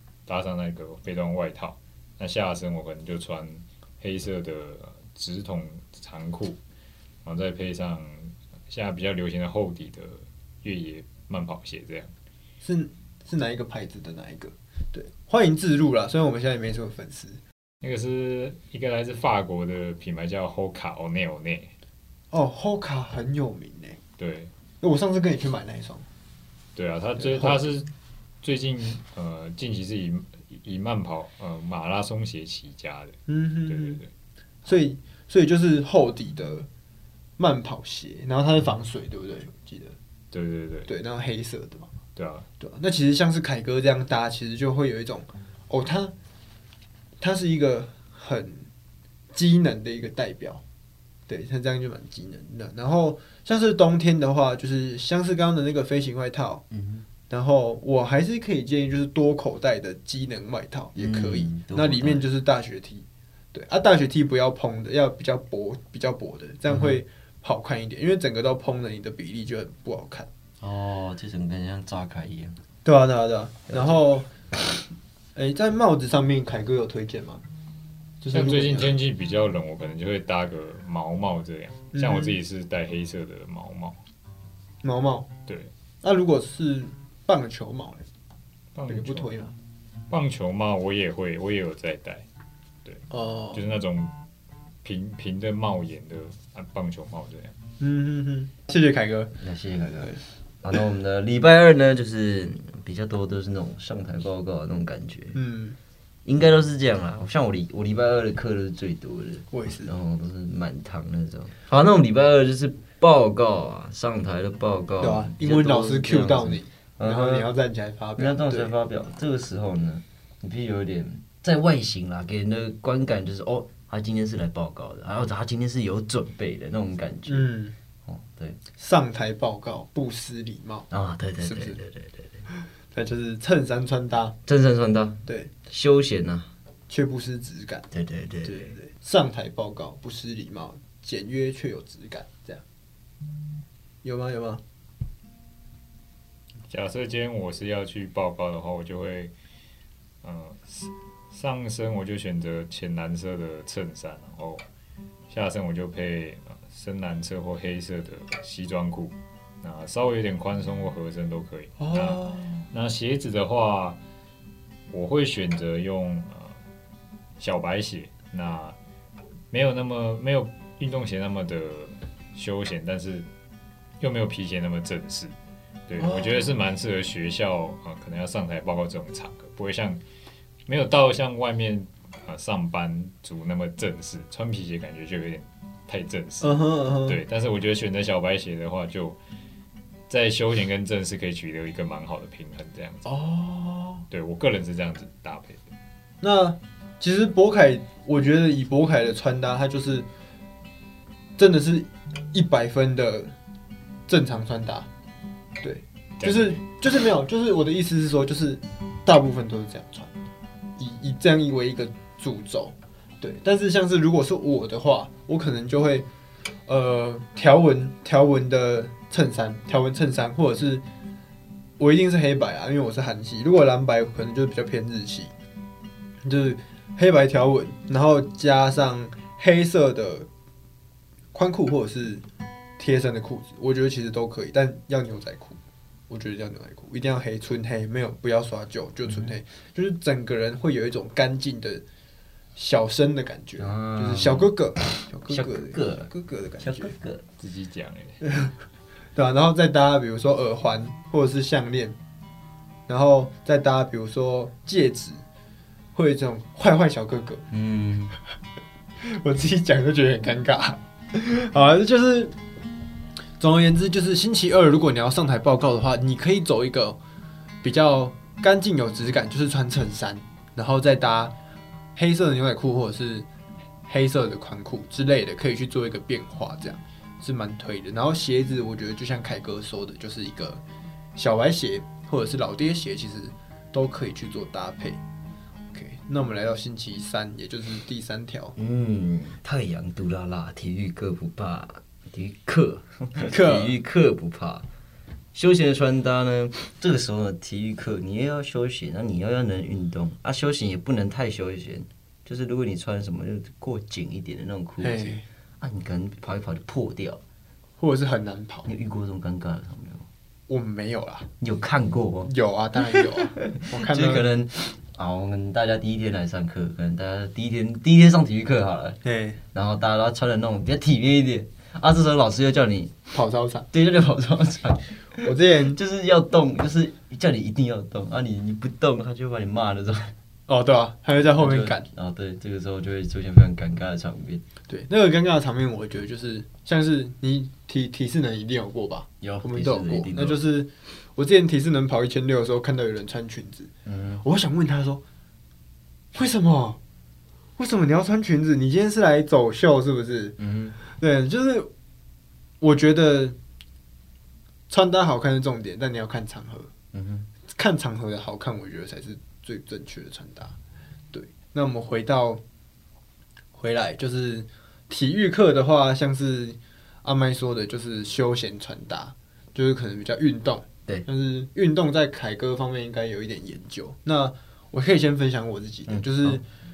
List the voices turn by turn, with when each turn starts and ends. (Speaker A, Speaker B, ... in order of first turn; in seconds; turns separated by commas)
Speaker A: 0.3-6.6, Speaker A: 7.2-12.1, Speaker B: 12.6-17.4, Speaker A: 17.8-21.7, Speaker B: 22.3-24.0, Speaker A: 24.2-24.5, Speaker B: 24.8-26.0, Speaker A: 26.7-27.9, Speaker B: 27.2-27.5, Speaker A: 28.4-34.1, Speaker B: 33.3-34.0, Speaker B: 34.6-36.7, Speaker B: 37.4-39.9, Speaker A: 40.3-40.9, Speaker B: 40.9-41.9, Speaker A: 42.1-42.5, Speaker B: 42.6-46.1, Speaker B: 47.2-48.7, Speaker B: 49.3-50.6, Speaker B: 51.3-56.6, Speaker C: 56.7-57.0, Speaker B: 57.3-70.3, Speaker C: 61.0-62.2, Speaker C: 66.7-67.0, Speaker C: 70.6-72.6, Speaker B: 72.8-74.3, Speaker C: 73.7-74.0, Speaker B: 75.3-77.4, Speaker B: 78.2-78.9, Speaker A: 78.3-84.0, Speaker B: 81.9-82.3, Speaker B: 84.8-85.3, Speaker B: 86.0-88.0, Speaker A: 88.7-89.3, Speaker B: 88.9-89.5, Speaker A: 90.1-92.2, Speaker A: 92.8-94.1, Speaker B: 93.1-93.6, Speaker A: 94.8-97.5, Speaker B: 97.8-99.3, Speaker C: 99.3-105.3, Speaker B: 105.3-105.8, Speaker C: 106.2-117.5, Speaker B: 109.5-109.9, Speaker B: 115.0-118.7, Speaker C: 118.2-127.5, Speaker B: 127.3-127.7, Speaker C: 128.0-128.6, Speaker B: 128.8-130.9, Speaker C: 130.9-132.4, Speaker B: 131.4-131.8, Speaker B: 132.5-134.3, Speaker C: 134.4-136.5, Speaker B: 135.2-135.5, Speaker B: 136.9-137.9, Speaker C: 137.9-138.8, Speaker B: 138.4-142.6, Speaker B: 144.0-144.6, Speaker A: 146.7-149.3, Speaker A: 150.2-154.6, Speaker A: 155.3-164.0, Speaker B: 161.8-162.6, Speaker A: 164.9-166.6, Speaker A: 167.4-168.8, Speaker A: 169.5-173.3, Speaker A: 174.0-175.3, Speaker A: 175.9-180.0, Speaker A: 180.7-189.2, Speaker B: 186.4-187.2, Speaker A: 190.1-193.1, Speaker B: 193.0-194.0, Speaker A: 194.1-195.6, Speaker B: 196.2-200.1, Speaker B: 201.4-203.3, Speaker B: 204.1-204.9, Speaker B: 205.6-210.1, Speaker A: 206.2-206.6, Speaker B: 210.8-216.1, Speaker B: 216.7-220.8, Speaker B: 221.8-225.3, Speaker B: 226.2-230.3, Speaker B: 231.3-232.2, Speaker B: 232.8-235.6, Speaker B: 236.1-241.8, Speaker C: 239.1-239.3, Speaker B: 242.6-246.9, Speaker C: 243.6-244.5, Speaker C: 245.3-247.2, Speaker A: 247.4-248.2, Speaker B: 248.2-248.5, Speaker B: 249.2-251.9, Speaker B: 252.9-255.2, Speaker B: 255.9-257.4, Speaker C: 257.5-258.1, Speaker B: 259.0-262.3, Speaker B: 263.4-267.0, Speaker B: 267.6-271.3, Speaker B: 271.9-273.2, Speaker B: 273.9-280.6, Speaker B: 281.1-285.0, Speaker B: 285.7-288.5, Speaker C: 288.6-294.6, Speaker B: 293.2-293.8, Speaker C: 295.3-307.2, Speaker B: 304.8-305.2, Speaker B: 307.8-308.7, Speaker C: 308.6-310.1, Speaker B: 310.5-311.3, Speaker C: 311.4-319.0, Speaker B: 312.2-314.3, Speaker B: 319.0-319.4, Speaker C: 319.5-323.0, Speaker B: 323.1-323.7, Speaker C: 323.7-330.1, Speaker B: 325.2-325.8, Speaker B: 330.5-331.9, Speaker C: 331.2-334.4, Speaker B: 334.7-343.7, Speaker C: 339.2-340.4, Speaker C: 343.9-344.2, Speaker B: 344.2-345.0, Speaker B: 346.1-346.8, Speaker B: 347.6-350.4, Speaker C: 350.4-350.8, Speaker B: 350.9-351.7, Speaker B: 352.6-353.4, Speaker B: 354.7-356.7, Speaker C: 356.9-357.2, Speaker B: 357.6-360.5, Speaker B: 361.1-362.4, Speaker B: 363.5-376.4, Speaker C: 375.9-376.4